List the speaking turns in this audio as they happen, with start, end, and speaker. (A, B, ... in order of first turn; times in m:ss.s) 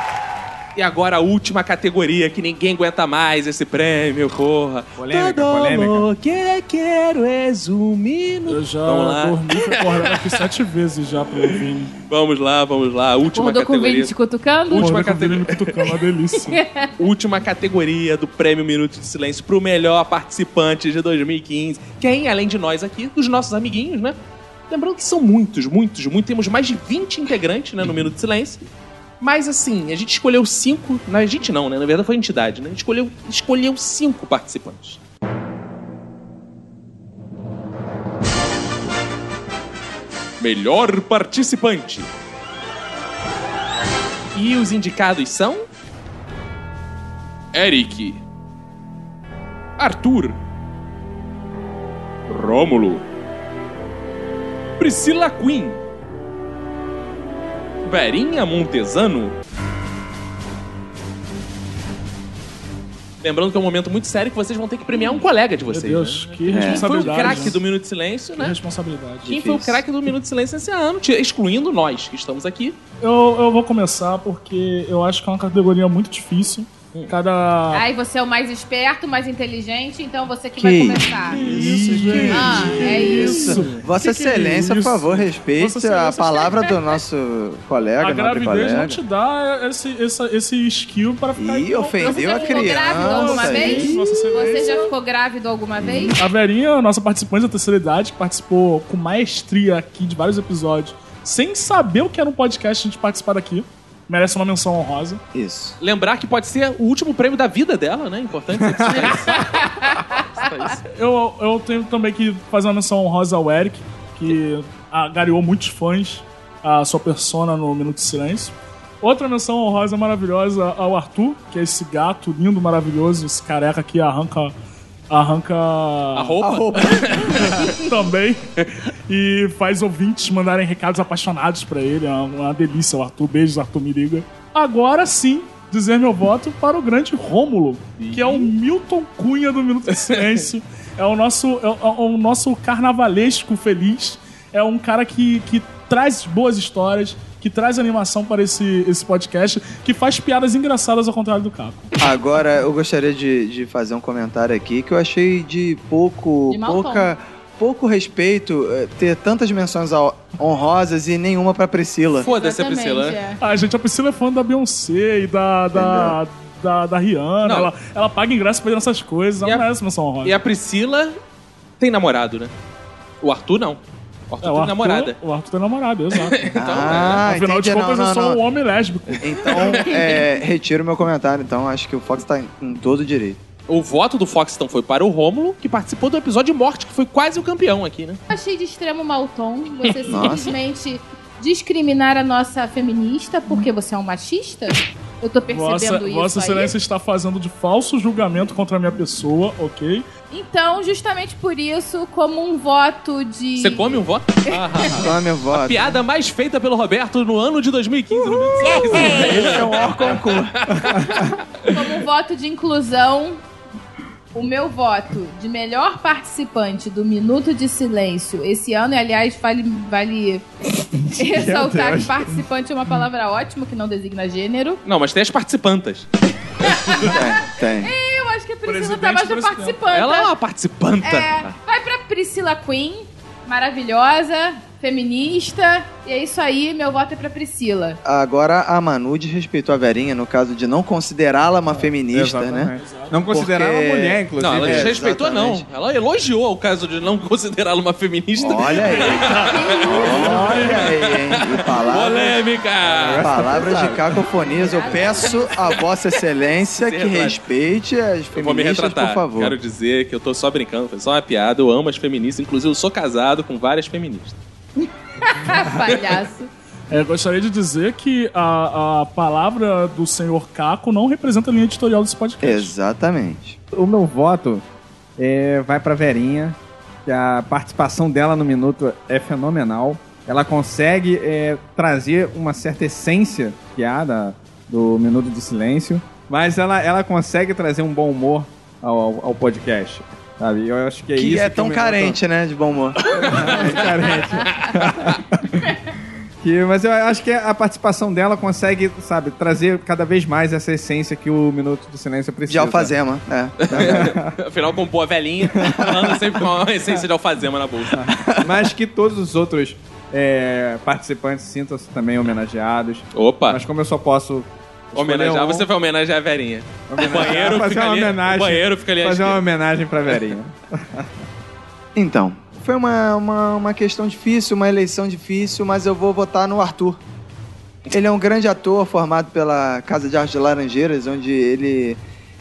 0:00.7-0:10.4 A
0:05.0-0:06.1 B
0:08.5-0:11.9 C
0:12.0-0:14.1 A
0:13.3-0:14.9 D
0:14.7-0:15.9 A
0:14.8-0:16.6 C
0:16.4-0:16.9 D
0:17.0-0:24.2 A
0:24.7-0:28.6 A
0:29.2-0:35.0 A
0:40.4-0:42.1 A
0:44.3-0:45.6 A
0:47.5-0:48.2 A
0:49.8-0:50.4 A
0:52.3-0:53.0 A
0:54.8-0:55.8 A
0:57.8-0:59.4 A
1:03.2-1:08.6 A
1:05.7-1:07.6 C
1:06.5-1:07.5 E
1:08.3-1:09.3 C
1:09.2-1:09.8 E
1:09.3-1:12.8 A
1:13.0-1:17.8 C
1:17.7-1:21.4 D
1:20.6-1:29.0 E
1:21.3-1:26.4 C
1:22.2-1:23.7 D
1:28.0-1:34.9 C
1:31.4-1:34.4 E
1:32.0-1:36.2 D
1:35.8-1:36.1 E
1:36.2-1:45.2 C
1:45.3-1:45.8 E
1:45.8-1:50.8 A
1:49.3-1:50.2 D
1:50.9-2:04.6 C
2:05.1-2:06.4 C
2:06.1-2:07.7 A
2:06.4-2:07.8 E
2:07.1-2:08.5 C
2:09.1-2:31.9 C
2:18.0-2:18.5 A
2:19.9-2:20.5 A
2:32.0-2:42.3 E
2:36.5-2:37.1 D
2:42.2-2:43.4 D
2:42.2-2:43.2 A
2:43.4-2:50.4 C
2:45.7-2:46.2 E
2:47.4-2:47.7 A
2:50.2-2:51.2 A
2:51.8-2:52.5 A
2:53.2-2:55.2 A
2:54.4-2:59.7 C
2:56.1-2:57.2 A
2:56.6-2:58.4 E
2:59.2-3:03.4 E
2:59.5-2:59.8 A
2:59.9-3:00.1 D
3:03.7-3:08.2 A
3:08.3-3:16.7 D
3:10.1-3:10.5 E
3:15.5-3:20.0 C
3:20.3-3:25.0 D
3:23.6-3:31.4 A
3:24.9-3:26.0 E
3:28.9-3:30.7 E
3:31.7-3:33.4 D
3:34.3-3:44.8 D
3:40.9-3:42.5 B
3:44.8-3:46.1 A
3:46.6-3:50.3 D
3:47.0-3:47.9 E
3:48.6-3:49.8 C
3:49.9-3:51.5 A
3:51.0-3:58.0 D
3:58.0-4:02.7 E
4:01.8-4:05.0 B
4:02.7-4:03.2 C
4:03.2-4:05.6 E
4:04.4-4:13.4 A
4:08.4-4:09.2 E
4:08.9-4:10.8 C
4:09.2-4:10.8 D
4:09.9-4:12.4 E
4:12.8-4:14.2 B
4:13.0-4:19.6 E
4:14.3-4:15.8 D
4:16.7-4:17.4 A
4:18.3-4:24.4 A
4:25.2-4:26.5 D
4:26.9-4:32.7 C
4:32.4-4:33.6 E
4:33.7-4:34.6 B
4:35.2-4:52.2 B
4:51.2-4:53.8 E
4:53.1-4:55.8 B
4:53.2-4:54.8 A
4:56.4-5:02.9 B
5:02.5-5:04.2 E
5:03.6-5:08.1 A
5:03.7-5:04.4 B
5:05.5-5:06.0 B
5:07.9-5:15.7 B
5:08.0-5:08.7 E
5:13.1-5:13.6 A
5:14.9-5:19.4 A
5:16.9-5:21.2 B
5:21.9-5:27.0 E
5:27.9-5:32.0 E